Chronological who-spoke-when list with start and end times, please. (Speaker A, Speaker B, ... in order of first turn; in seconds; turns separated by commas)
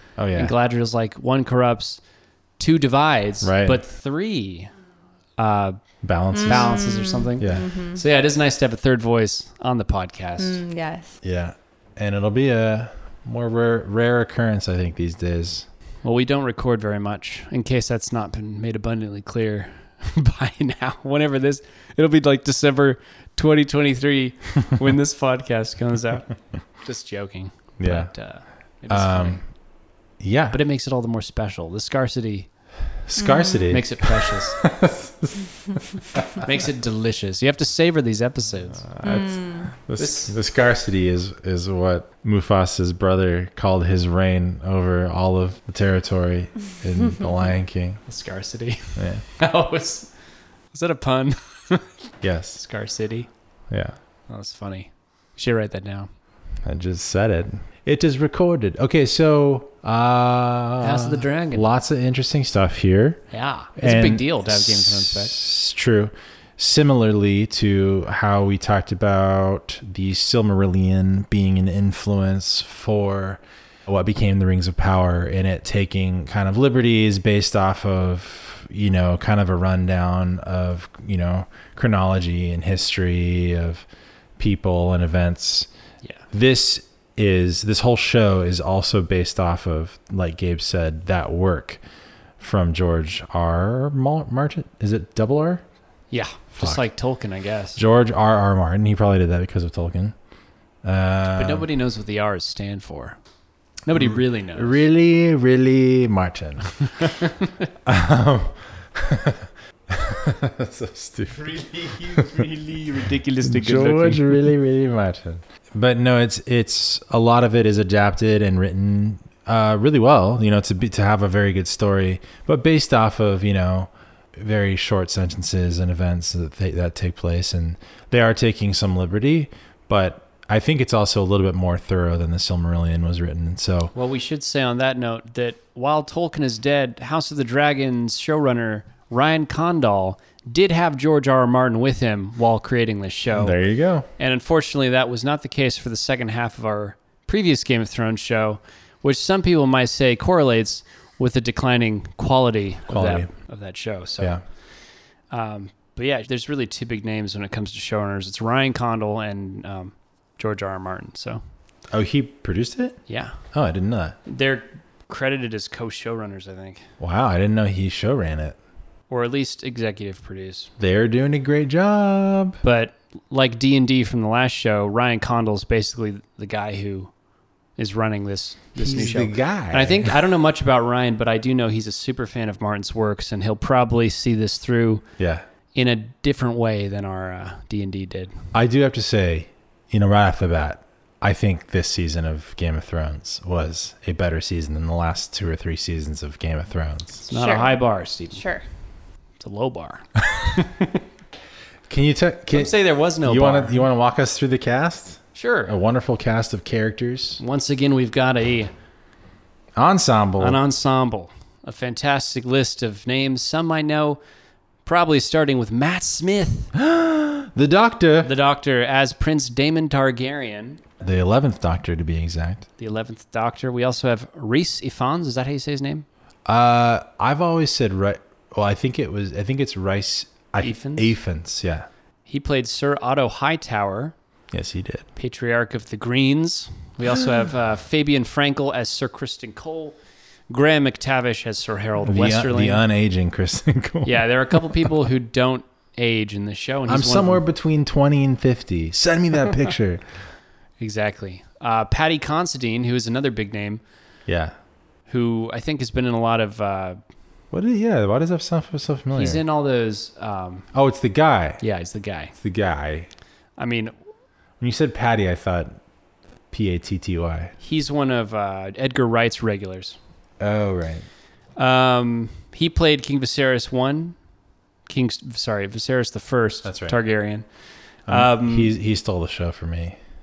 Speaker A: 0.2-0.5, Speaker B: 0.3-2.0, Speaker B: 2.6-4.7, Speaker A: 3.4-3.8, Speaker B: 5.4-5.8, Speaker A: 6.0-6.8, Speaker B: 6.4-10.6, Speaker C: 6.4-8.0, Speaker A: 7.4-7.7, Speaker C: 10.4-11.2, Speaker A: 11.2-15.7, Speaker B: 16.0-29.4, Speaker A: 27.8-28.1, Speaker A: 28.9-29.4, Speaker A: 30.2-30.6, Speaker B: 30.5-32.5, Speaker A: 33.1-36.4, Speaker C: 33.2-33.6, Speaker B: 33.7-34.6, Speaker B: 36.4-38.9, Speaker A: 38.9-48.0, Speaker C: 39.0-39.7, Speaker B: 40.0-40.3, Speaker B: 48.1-50.1, Speaker A: 49.0-49.2, Speaker B: 50.7-51.9, Speaker A: 52.2-52.6, Speaker B: 52.5-53.3, Speaker A: 53.7-54.0, Speaker B: 54.3-56.1, Speaker A: 56.6-83.8, Speaker B: 60.8-61.6, Speaker B: 63.3-65.3, Speaker A: 84.4-85.7, Speaker A: 86.3-91.8, Speaker A: 92.4-95.6, Speaker B: 96.1-97.8, Speaker A: 96.5-96.9, Speaker A: 97.7-100.1, Speaker A: 100.8-101.6, Speaker B: 101.3-103.2, Speaker B: 103.8-104.8, Speaker A: 103.9-107.3, Speaker A: 107.8-112.5, Speaker B: 111.3-114.4, Speaker A: 113.4-133.9, Speaker B: 133.9-143.6, Speaker A: 143.3-144.1, Speaker B: 144.2-154.4, Speaker A: 152.9-153.3, Speaker B: 155.3-161.4, Speaker A: 161.9-163.0, Speaker B: 163.1-163.4, Speaker A: 163.5-164.2, Speaker B: 164.2-166.8, Speaker A: 167.0-168.6, Speaker B: 169.1-170.7, Speaker A: 170.8-172.6, Speaker B: 172.6-177.1, Speaker B: 177.8-185.0, Speaker A: 178.8-180.2, Speaker A: 185.2-185.4, Speaker B: 185.7-188.3, Speaker A: 188.5-197.2, Speaker B: 197.3-198.4, Speaker C: 197.3-197.8, Speaker C: 198.3-198.6, Speaker B: 199.4-200.9, Speaker A: 201.9-207.4, Speaker B: 202.5-203.8, Speaker B: 205.3-205.7, Speaker B: 207.4-208.7, Speaker A: 209.7-210.6, Speaker B: 210.4-214.2, Speaker B: 214.8-216.7, Speaker A: 216.7-218.3, Speaker B: 218.2-220.8, Speaker A: 221.0-222.7, Speaker B: 222.8-226.1, Speaker A: 226.5-231.9, Speaker B: 230.6-231.1, Speaker B: 232.2-234.1, Speaker A: 234.5-235.1, Speaker B: 235.1-240.0, Speaker B: 240.5-242.8, Speaker A: 242.0-244.9, Speaker B: 244.0-247.4, Speaker A: 246.9-250.0, Speaker B: 250.8-253.8, Speaker A: 254.3-254.5, Speaker B: 255.1-257.0, Speaker A: 257.5-259.4, Speaker B: 259.1-260.7, Speaker A: 260.7-261.6, Speaker B: 261.6-262.3, Speaker A: 262.3-263.1, Speaker B: 263.6-263.9, Speaker A: 264.6-265.8, Speaker A: 266.5-267.5, Speaker B: 267.6-270.0, Speaker A: 270.4-271.1, Speaker B: 271.6-274.1, Speaker B: 274.9-277.4, Speaker A: 276.6-277.0, Speaker B: 278.1-278.7, Speaker A: 278.1-280.0